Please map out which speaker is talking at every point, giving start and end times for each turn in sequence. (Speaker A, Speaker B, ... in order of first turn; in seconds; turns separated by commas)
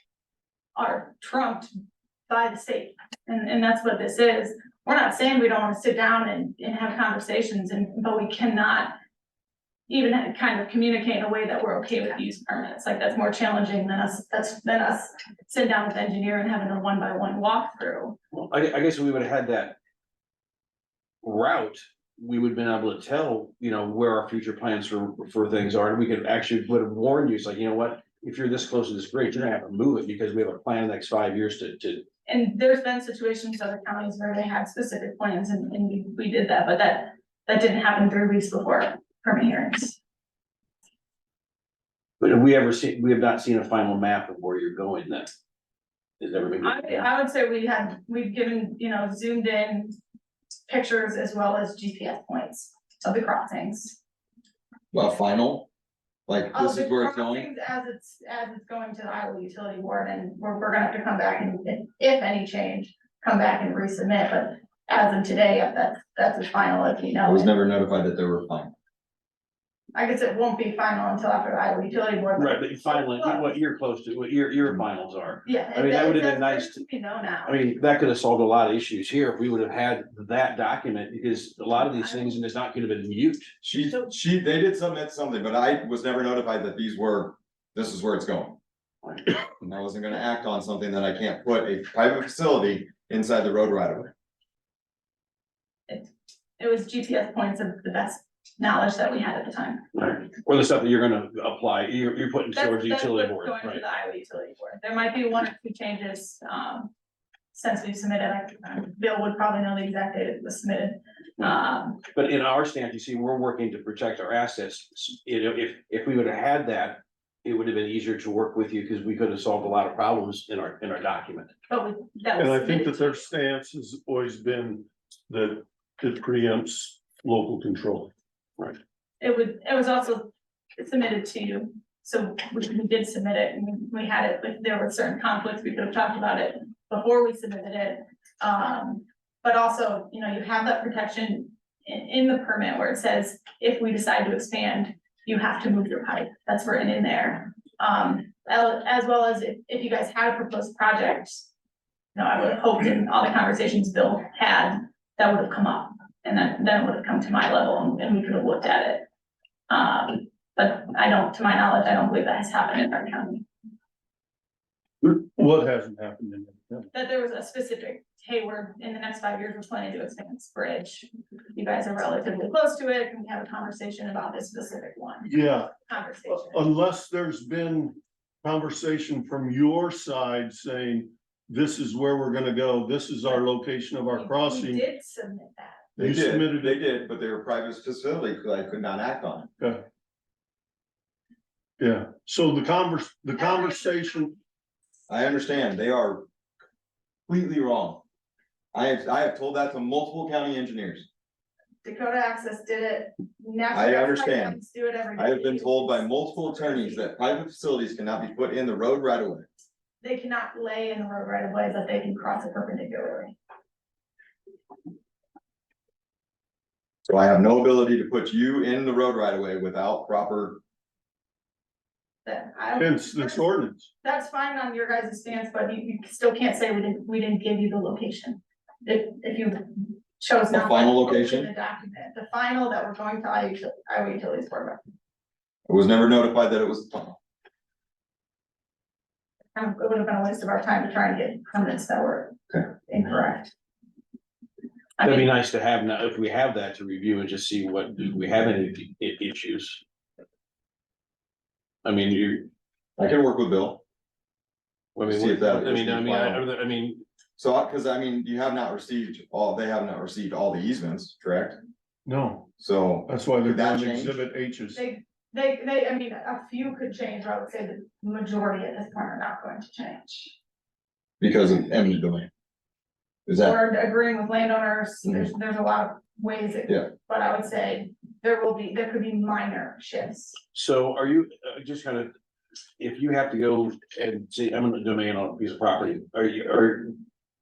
Speaker A: 0.8-1.7, Speaker A: 2.3-8.9, Speaker A: 9.9-18.2, Speaker B: 18.4-19.8, Speaker B: 21.2-32.0, Speaker A: 32.2-40.0, Speaker B: 42.2-45.3, Speaker B: 46.2-47.1, Speaker A: 46.6-49.9, Speaker A: 50.7-54.0, Speaker C: 54.9-55.7, Speaker C: 56.3-57.5, Speaker A: 56.5-67.5, Speaker C: 67.2-68.7, Speaker A: 69.9-73.5, Speaker B: 72.4-76.8, Speaker A: 75.4-77.6, Speaker B: 77.4-83.5, Speaker A: 81.7-82.3, Speaker C: 83.6-88.6, Speaker C: 89.6-94.1, Speaker A: 95.9-99.8, Speaker B: 99.9-103.8, Speaker A: 102.5-106.9, Speaker A: 107.5-112.0, Speaker B: 112.1-121.5, Speaker A: 121.7-123.3, Speaker D: 122.4-128.1, Speaker A: 129.2-151.5, Speaker A: 152.2-159.1, Speaker A: 159.7-163.5, Speaker D: 165.0-166.9, Speaker A: 166.9-176.6, Speaker D: 175.3-175.8, Speaker D: 176.3-184.9, Speaker A: 184.1-185.8, Speaker D: 186.0-186.8, Speaker C: 186.0-189.5, Speaker D: 191.8-194.3, Speaker A: 193.4-194.2, Speaker C: 195.1-196.3, Speaker C: 197.3-198.0, Speaker C: 198.7-201.1, Speaker A: 201.8-207.1, Speaker C: 203.7-204.6, Speaker C: 205.2-209.5, Speaker A: 210.0-213.4, Speaker C: 217.1-220.6, Speaker A: 222.2-223.5, Speaker D: 222.8-223.9, Speaker A: 224.0-234.8, Speaker C: 230.5-231.5, Speaker C: 235.7-237.2, Speaker A: 239.6-243.5, Speaker A: 245.0-245.3, Speaker B: 245.0-249.8, Speaker B: 251.8-252.5, Speaker C: 253.0-253.8, Speaker B: 254.9-257.0, Speaker C: 255.1-256.4, Speaker C: 257.4-261.6, Speaker D: 262.0-262.5, Speaker C: 262.6-264.1, Speaker D: 263.1-264.8, Speaker A: 264.8-270.3, Speaker C: 271.2-272.3, Speaker C: 273.2-273.6, Speaker A: 273.4-280.4, Speaker B: 280.5-282.1, Speaker B: 282.8-287.0